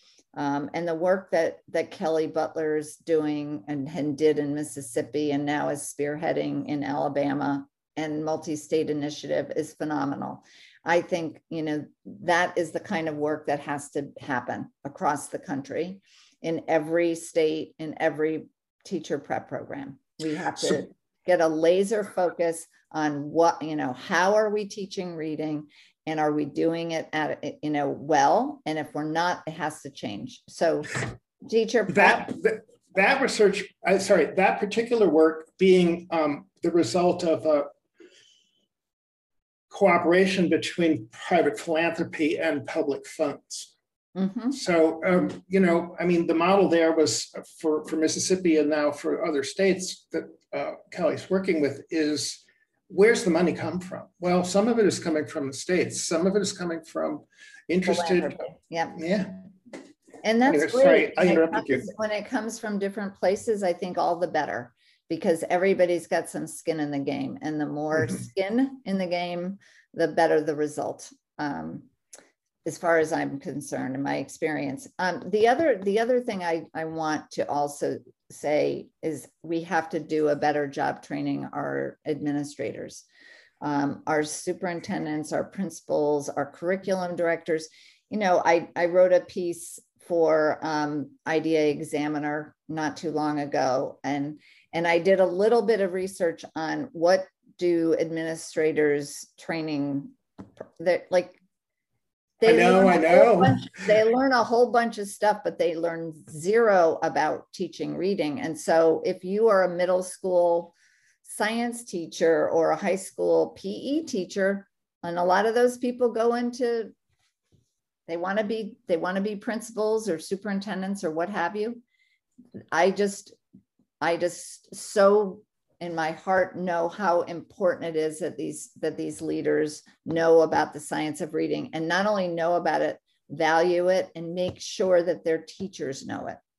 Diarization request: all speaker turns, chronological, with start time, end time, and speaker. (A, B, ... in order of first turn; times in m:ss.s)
0:00.3-0:32.3 A
0:31.9-0:37.7 B
0:39.7-0:43.7 B
0:44.1-0:44.6 A
0:44.5-0:58.4 B
0:57.8-0:59.0 A
0:58.9-0:59.5 B
1:00.2-1:11.9 A
1:00.4-1:01.8 B
1:12.6-1:23.0 A
1:23.6-1:40.1 A
1:40.8-1:41.4 A
1:42.4-1:50.7 A
1:42.4-1:43.6 B
1:51.2-1:56.9 A
1:58.1-2:01.8 A
2:02.7-2:03.4 A
2:04.0-2:16.4 A